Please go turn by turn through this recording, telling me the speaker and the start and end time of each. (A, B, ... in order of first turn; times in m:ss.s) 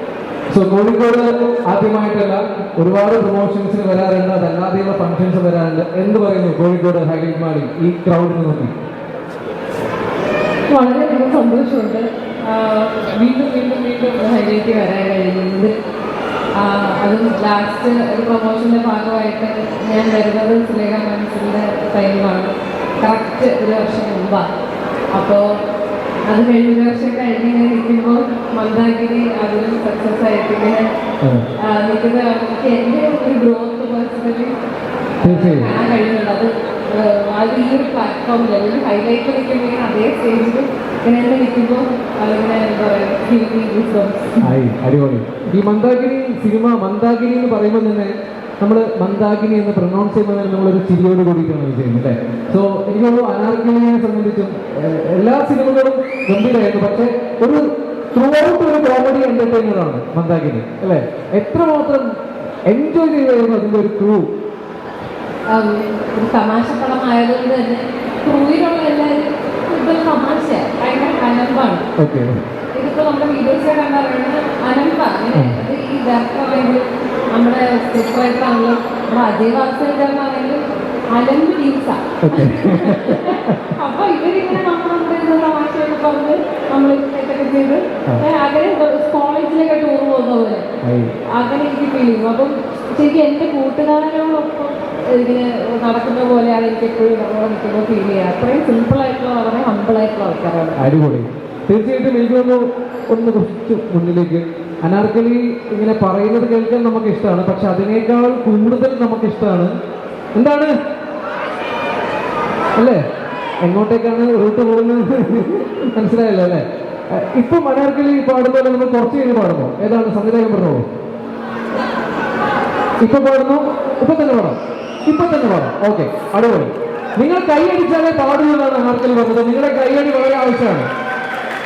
0:00.5-0:08.7 A
0:10.7-0:15.7 B
0:16.6-0:24.4 B
0:25.1-0:25.4 B
0:26.3-0:30.8 B
0:31.6-0:34.5 B
0:35.2-0:44.5 B
0:35.2-0:35.7 A
0:44.4-0:57.6 A
0:58.1-1:02.1 A
1:02.7-1:04.2 A
1:05.5-1:11.8 B
1:12.0-1:12.3 A
1:12.8-1:16.8 B
1:17.3-1:20.6 B
1:21.1-1:30.6 B
1:22.2-1:23.7 A
1:30.8-1:31.1 A
1:31.3-1:40.8 B
1:40.8-1:49.7 A
1:50.4-1:50.7 A
1:53.6-2:00.8 A
2:03.0-2:10.9 A